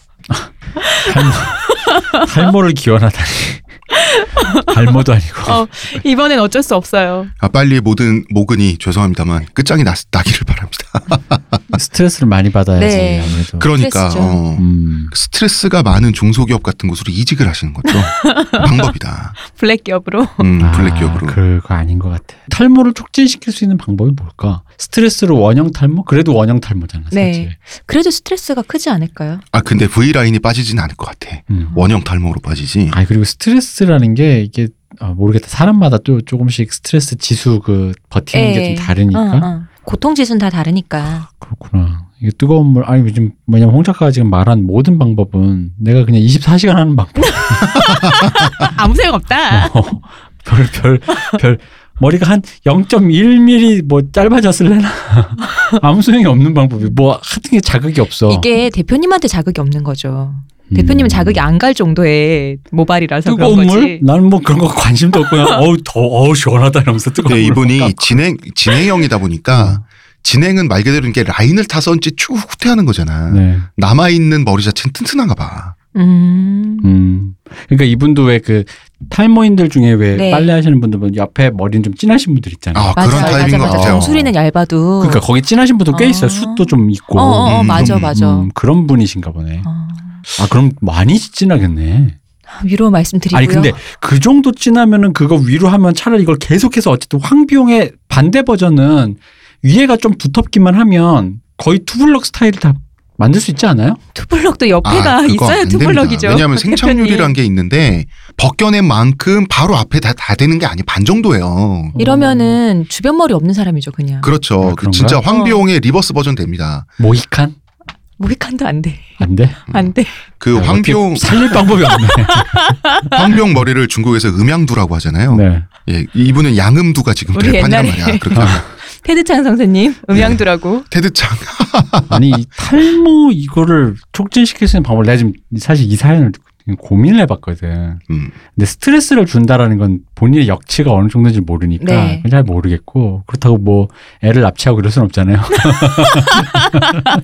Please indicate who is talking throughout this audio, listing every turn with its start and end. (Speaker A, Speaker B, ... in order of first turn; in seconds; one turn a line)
Speaker A: 0.3-3.6
Speaker B: 0.8-2.2
Speaker B: 3.9-4.7
Speaker A: 4.6-5.6
Speaker B: 5.4-7.3
Speaker C: 7.4-11.6
Speaker A: 11.7-13.7
Speaker B: 12.8-14.4
Speaker C: 13.6-19.4
Speaker A: 14.6-15.1
Speaker B: 17.9-18.8
Speaker B: 19.4-20.5
Speaker C: 20.4-21.4
Speaker A: 20.6-27.5
Speaker B: 27.1-29.4
Speaker C: 29.5-33.0
Speaker A: 31.5-31.8
Speaker A: 32.9-39.5
Speaker B: 38.3-41.3
Speaker A: 41.3-47.7
Speaker B: 47.2-49.8
Speaker A: 49.5-58.5
Speaker B: 58.3-64.0
Speaker A: 60.7-61.4
Speaker A: 63.2-68.2
Speaker B: 65.3-65.6
Speaker C: 67.2-75.7
Speaker A: 69.5-69.8
Speaker A: 73.3-73.7
Speaker B: 75.9-76.9
Speaker A: 76.8-84.3
Speaker B: 80.1-80.5
Speaker C: 82.7-84.1
Speaker B: 83.0-85.2
Speaker A: 85.0-89.7
Speaker B: 85.9-88.5
Speaker C: 87.5-88.1
Speaker B: 89.6-90.2
Speaker A: 90.4-92.2
Speaker B: 92.5-93.8
Speaker A: 93.3-104.0
Speaker B: 104.1-107.3
Speaker C: 104.8-112.0
Speaker A: 111.9-112.6
Speaker B: 112.0-114.3
Speaker C: 114.2-116.9
Speaker A: 114.6-115.2
Speaker B: 115.3-115.6
Speaker A: 117.0-117.5
Speaker B: 118.2-120.2
Speaker A: 119.2-119.6
Speaker C: 119.7-121.6
Speaker A: 120.5-122.7
Speaker B: 122.0-123.2
Speaker C: 123.1-128.6
Speaker A: 125.3-125.7
Speaker B: 127.3-130.8
Speaker C: 130.1-132.2
Speaker A: 132.1-138.0
Speaker C: 138.1-138.3
Speaker A: 138.5-147.0
Speaker B: 141.8-142.2
Speaker B: 145.6-146.6